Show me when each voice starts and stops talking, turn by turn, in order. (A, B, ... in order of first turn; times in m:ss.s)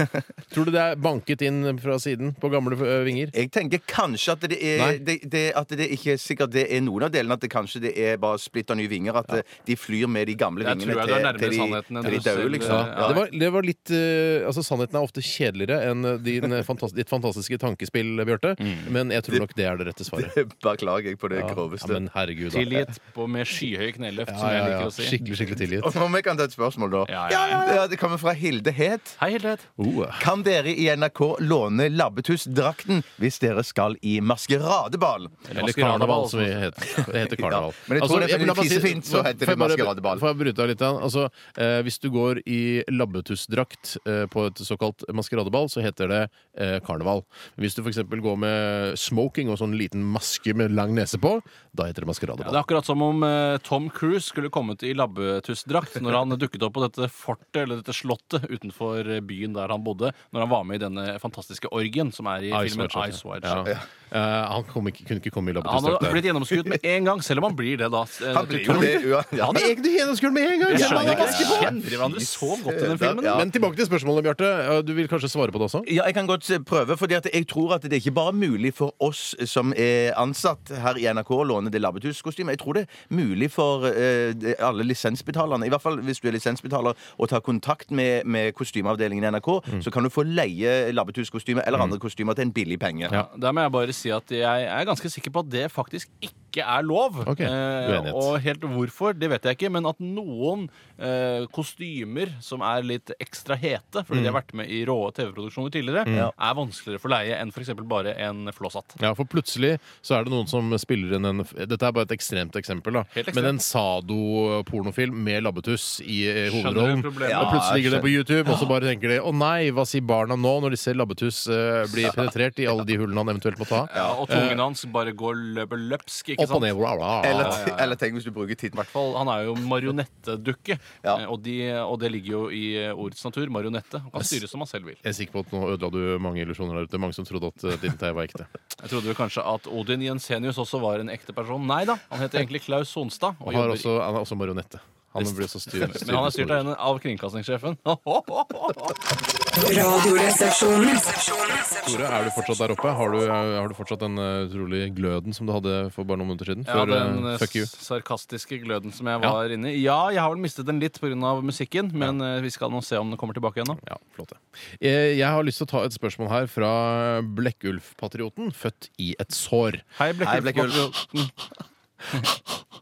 0:00.5-0:03.3 A
0:03.3-0:13.2 B
0:10.6-0:13.2 C
0:12.0-0:20.4 A
0:18.6-0:18.9 C
0:20.1-0:22.0 B
0:21.3-0:22.9 A
0:22.5-0:25.3 C
0:24.3-0:25.9 A
0:25.6-0:29.2 B
0:27.0-0:27.8 C
0:29.2-0:29.7 C
0:29.8-0:30.2 A
0:30.2-0:35.5 B
0:35.4-0:37.1 C
0:35.5-0:52.6 A
0:36.9-0:40.2 B
0:52.4-1:03.6 C
1:02.5-1:06.3 A
1:05.6-1:09.6 C
1:08.2-1:09.7 B
1:08.7-1:11.8 A
1:10.7-1:13.5 B
1:10.7-1:13.4 C
1:13.2-1:15.9 A
1:15.8-1:33.2 B
1:33.1-1:49.0 C
1:37.2-1:38.3 A
1:44.1-1:44.4 A
1:46.0-1:46.3 A
1:46.1-1:46.3 B
1:49.0-2:04.6 A
1:53.1-1:53.5 C
1:56.4-1:57.6 C
1:57.2-1:58.2 B
2:03.8-2:06.7 C
2:03.9-2:04.3 B
2:06.4-2:07.6 A
2:07.2-2:08.8 B
2:07.2-2:08.0 C
2:08.7-2:15.0 C
2:15.0-2:18.5 A
2:18.8-2:23.9 C
2:23.4-2:26.7 A
2:25.2-2:29.0 C
2:29.6-2:30.5 C
2:31.8-2:37.7 A
2:36.6-2:43.8 C
2:43.8-2:49.8 A
2:50.0-2:51.3 C
2:50.2-2:50.9 B